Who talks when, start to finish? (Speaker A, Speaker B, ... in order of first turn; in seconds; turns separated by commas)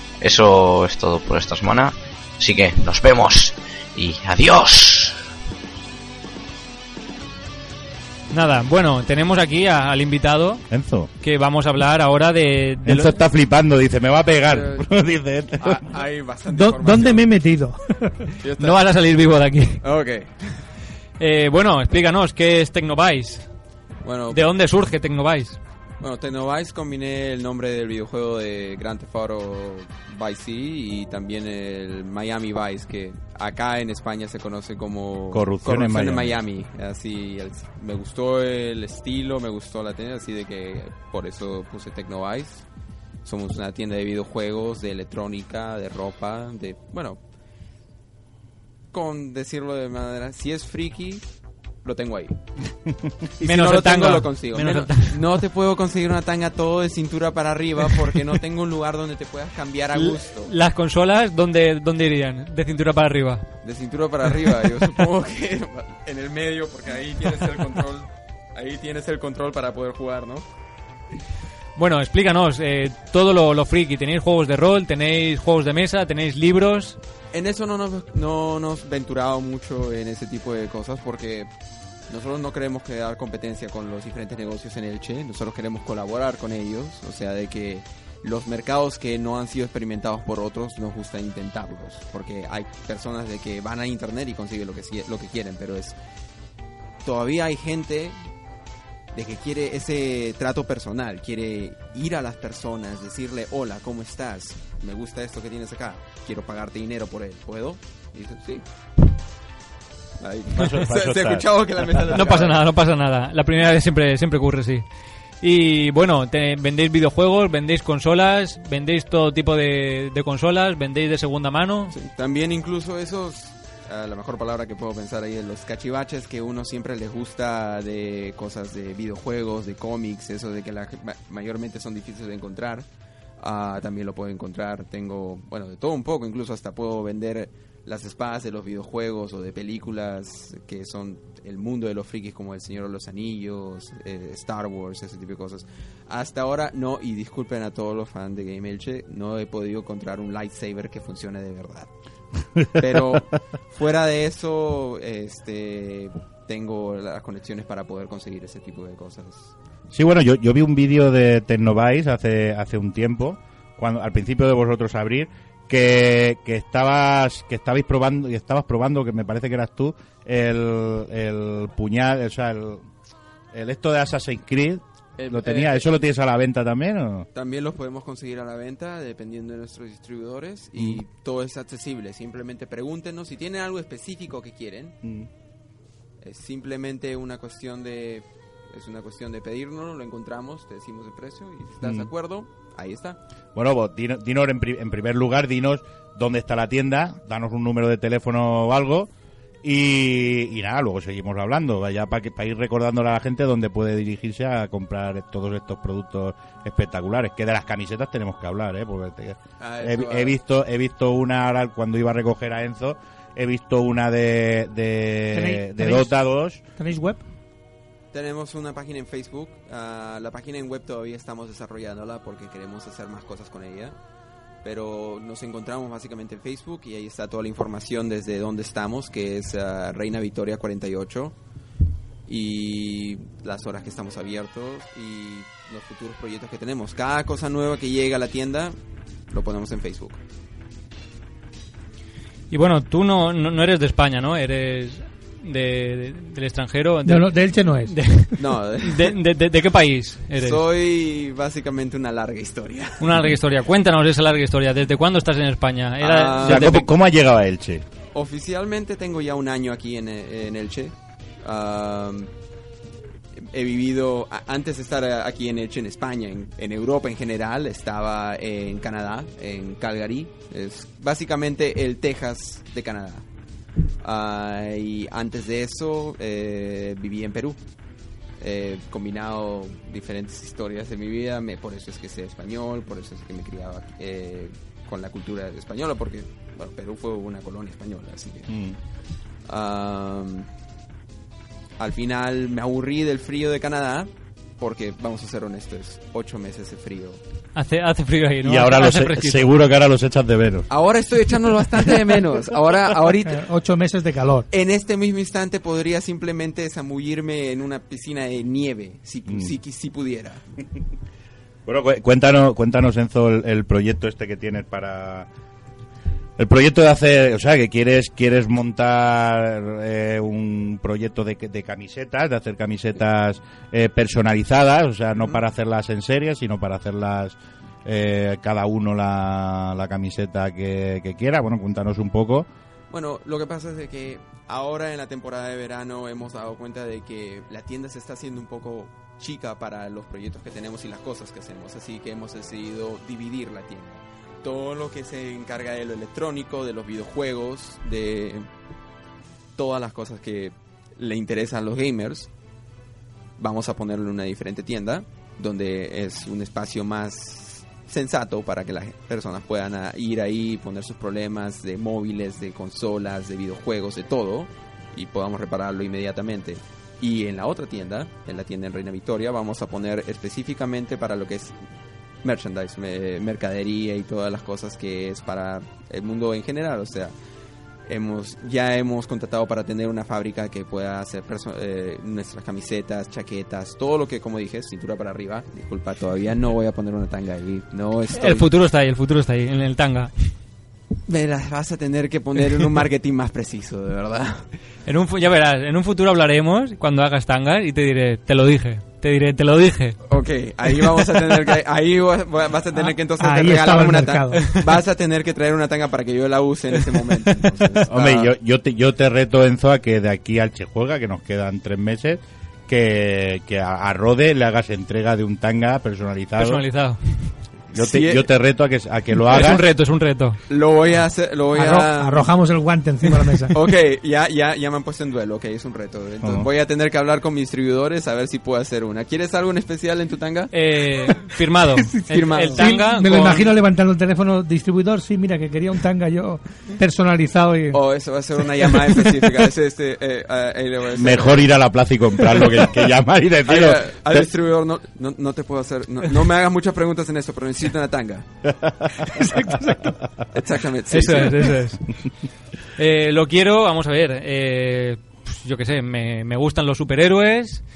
Speaker A: 0.2-5.2, Speaker B: 8.3-10.6, Speaker C: 10.7-11.1, Speaker B: 11.2-13.1, Speaker C: 12.9-15.9, Speaker D: 14.5-14.8, Speaker D: 15.6-17.3, Speaker E: 16.5-18.3, Speaker D: 18.4-18.8, Speaker B: 18.6-19.8, Speaker D: 19.8-20.6, Speaker B: 21.2-23.5, Speaker D: 24.0-24.5, Speaker B: 24.3-25.6, Speaker D: 26.0-42.6, Speaker C: 35.3-36.4, Speaker D: 43.2-47.2, Speaker D: 48.9-51.2, Speaker D: 51.8-52.4, Speaker D: 53.4-60.5, Speaker B: 53.4-55.2, Speaker B: 59.9-63.5, Speaker D: 63.6-70.5, Speaker B: 71.8-77.0, Speaker D: 77.3-81.5, Speaker D: 82.1-96.0, Speaker D: 97.0-98.2, Speaker D: 99.1-108.6, Speaker D: 110.2-112.6, Speaker C: 110.5-111.5, Speaker B: 112.1-114.8, Speaker B: 115.4-121.9, Speaker D: 121.9-132.9, Speaker D: 133.4-151.9, Speaker C: 152.6-153.2, Speaker D: 152.8-159.5, Speaker C: 159.9-172.9, Speaker C: 173.5-177.3, Speaker D: 175.2-175.9, Speaker D: 177.3-185.0, Speaker D: 186.2-193.2, Speaker C: 191.8-192.1, Speaker C: 193.6-199.1, Speaker C: 199.6-216.6, Speaker D: 209.6-210.4, Speaker E: 215.3-216.2, Speaker E: 216.8-217.2, Speaker D: 218.1-223.9, Speaker D: 224.6-231.3, Speaker D: 232.3-238.8, Speaker D: 239.3-240.2, Speaker B: 242.5-250.6, Speaker E: 247.1-248.0, Speaker D: 248.4-249.2, Speaker D: 250.4-253.2, Speaker B: 253.0-256.9, Speaker D: 256.0-256.8, Speaker C: 256.4-257.9, Speaker D: 258.1-262.3, Speaker D: 263.4-273.2, Speaker D: 274.0-277.6, Speaker D: 278.4-288.5, Speaker C: 288.5-288.8, Speaker D: 289.5-290.5, Speaker D: 291.8-297.2, Speaker B: 297.6-299.5, Speaker C: 298.4-300.7, Speaker D: 300.7-303.4, Speaker E: 303.4-304.5, Speaker D: 304.5-310.4, Speaker C: 311.7-315.3, Speaker C: 316.4-332.5, Speaker D: 332.9-348.5, Speaker D: 349.6-352.3, Speaker D: 353.4-371.6, Speaker D: 372.2-377.1, Speaker D: 377.9-388.5, Speaker B: 388.1-390.1, Speaker D: 391.1-394.5, Speaker B: 394.9-400.0, Speaker D: 400.1-408.3, Speaker E: 403.2-404.6, Speaker C: 407.9-416.6, Speaker B: 416.4-417.3, Speaker D: 417.7-418.3, Speaker C: 417.7-419.6, Speaker B: 419.3-420.4, Speaker D: 420.5-422.3, Speaker E: 421.5-423.6, Speaker D: 423.5-430.5, Speaker C: 426.2-426.5, Speaker B: 430.5-433.5, Speaker D: 432.1-432.8, Speaker E: 432.6-437.8, Speaker D: 437.7-441.5, Speaker C: 440.9-444.3, Speaker D: 443.5-448.3, Speaker E: 449.2-449.9, Speaker D: 450.3-451.6, Speaker B: 450.9-451.9, Speaker B: 452.8-457.6